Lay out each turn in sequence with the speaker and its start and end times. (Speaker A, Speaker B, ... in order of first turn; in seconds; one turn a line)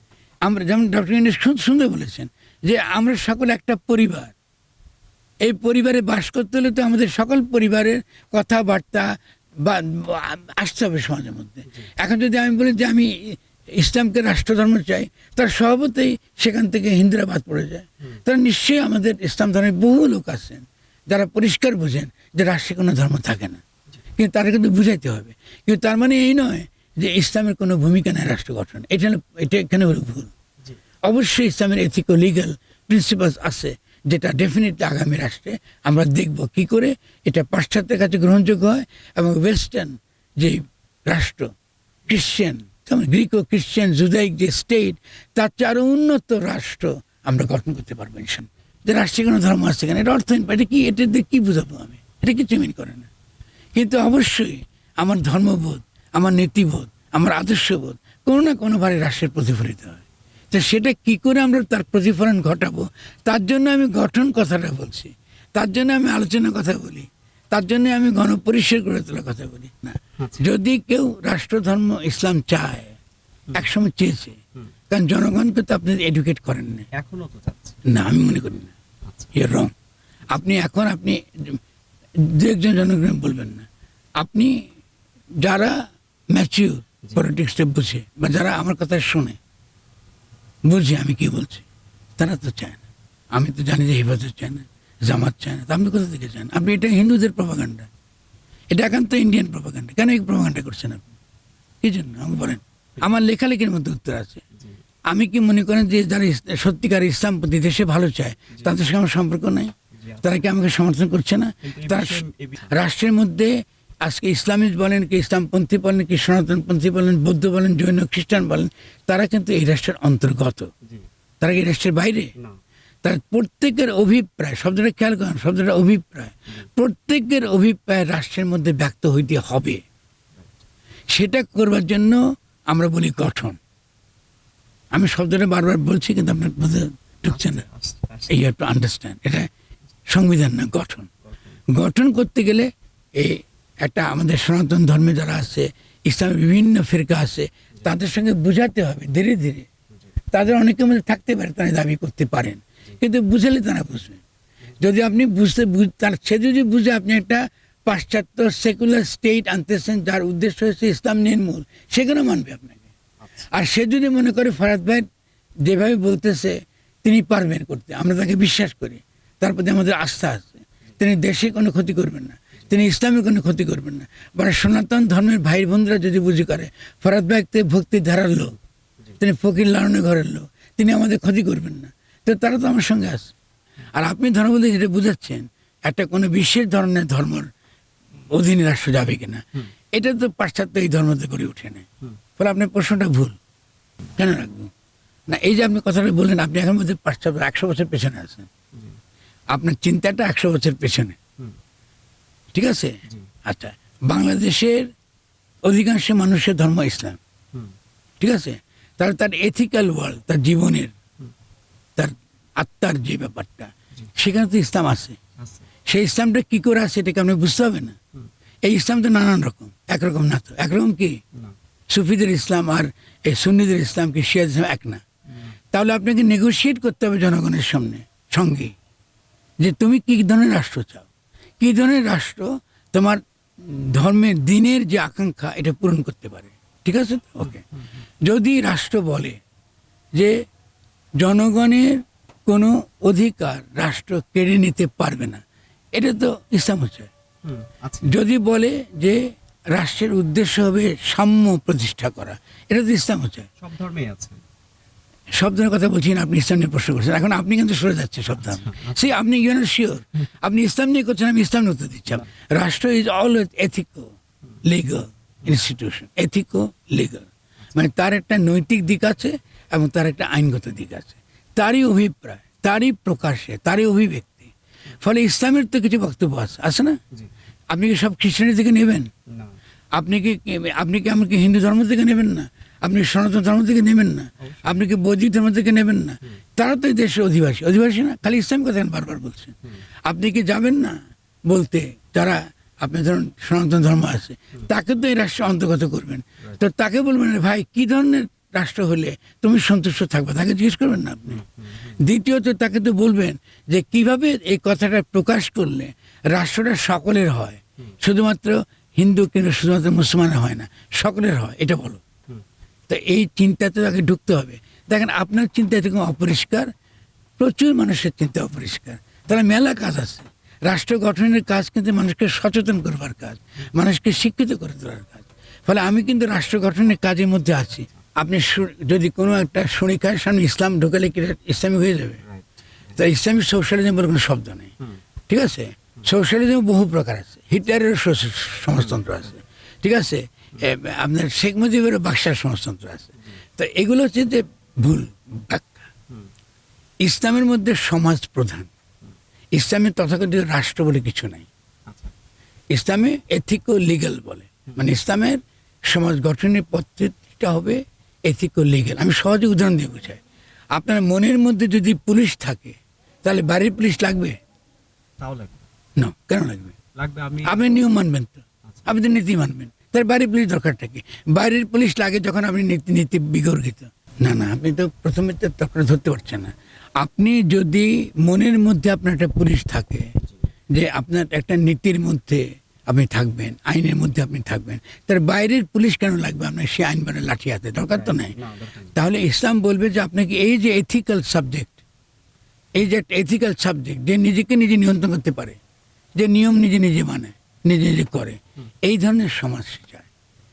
Speaker A: 0.4-4.3
Speaker A: 5.4-23.6
Speaker A: 24.2-30.3
Speaker A: 31.1-41.5
Speaker A: 42.1-53.1
Speaker A: 53.8-73.0
Speaker B: 70.2-70.5
Speaker A: 73.5-74.4
Speaker A: 74.9-76.9
Speaker B: 76.9-77.8
Speaker A: 77.8-78.7
Speaker B: 79.0-79.3
Speaker A: 79.3-79.7
Speaker A: 80.3-81.6
Speaker A: 82.2-83.7
Speaker A: 84.2-84.5
Speaker A: 85.4-89.4
Speaker A: 90.7-91.7
Speaker A: 92.2-97.9
Speaker A: 98.7-101.1
Speaker A: 101.8-104.4
Speaker A: 105.1-120.7
Speaker B: 110.0-110.2
Speaker B: 111.6-112.8
Speaker A: 121.4-122.3
Speaker A: 123.0-129.8
Speaker A: 131.1-133.6
Speaker A: 134.9-137.7
Speaker B: 137.3-138.4
Speaker A: 138.3-139.5
Speaker A: 140.1-141.1
Speaker A: 141.7-149.7
Speaker A: 150.3-154.2
Speaker A: 154.8-162.8
Speaker B: 163.2-163.5
Speaker A: 163.5-165.1
Speaker A: 165.6-178.6
Speaker A: 179.2-183.3
Speaker A: 183.9-187.5
Speaker A: 188.3-191.9
Speaker A: 192.4-193.4
Speaker A: 194.2-194.7
Speaker A: 195.3-198.5
Speaker A: 199.5-201.2
Speaker A: 202.5-204.9
Speaker A: 205.6-207.2
Speaker A: 208.2-210.9
Speaker A: 212.0-215.2
Speaker B: 215.4-215.7
Speaker A: 215.9-218.0
Speaker A: 218.7-221.2
Speaker A: 221.9-225.0
Speaker A: 225.7-228.7
Speaker A: 229.6-231.1
Speaker A: 231.6-237.6
Speaker B: 237.4-237.8
Speaker A: 238.2-239.4
Speaker A: 240.1-240.4
Speaker A: 241.2-245.4
Speaker A: 245.9-247.1
Speaker B: 247.4-248.1
Speaker A: 248.0-253.5
Speaker B: 253.6-254.4
Speaker A: 255.3-264.1
Speaker B: 258.4-259.1
Speaker A: 264.6-277.0
Speaker A: 277.7-279.1
Speaker B: 279.3-279.6
Speaker A: 280.0-301.4
Speaker B: 284.4-284.8
Speaker B: 301.3-302.0
Speaker A: 302.0-312.0
Speaker A: 312.9-316.7
Speaker A: 317.4-332.2
Speaker B: 332.2-333.0
Speaker A: 332.9-334.7
Speaker A: 335.3-345.9
Speaker A: 347.0-348.7
Speaker A: 349.6-351.5
Speaker A: 352.7-360.2
Speaker A: 360.7-364.4
Speaker B: 365.2-365.6
Speaker A: 366.0-366.8
Speaker B: 367.0-367.7
Speaker A: 367.4-380.1
Speaker A: 380.7-388.4
Speaker B: 387.9-389.0
Speaker A: 388.9-391.8
Speaker A: 392.8-395.6
Speaker A: 396.2-400.1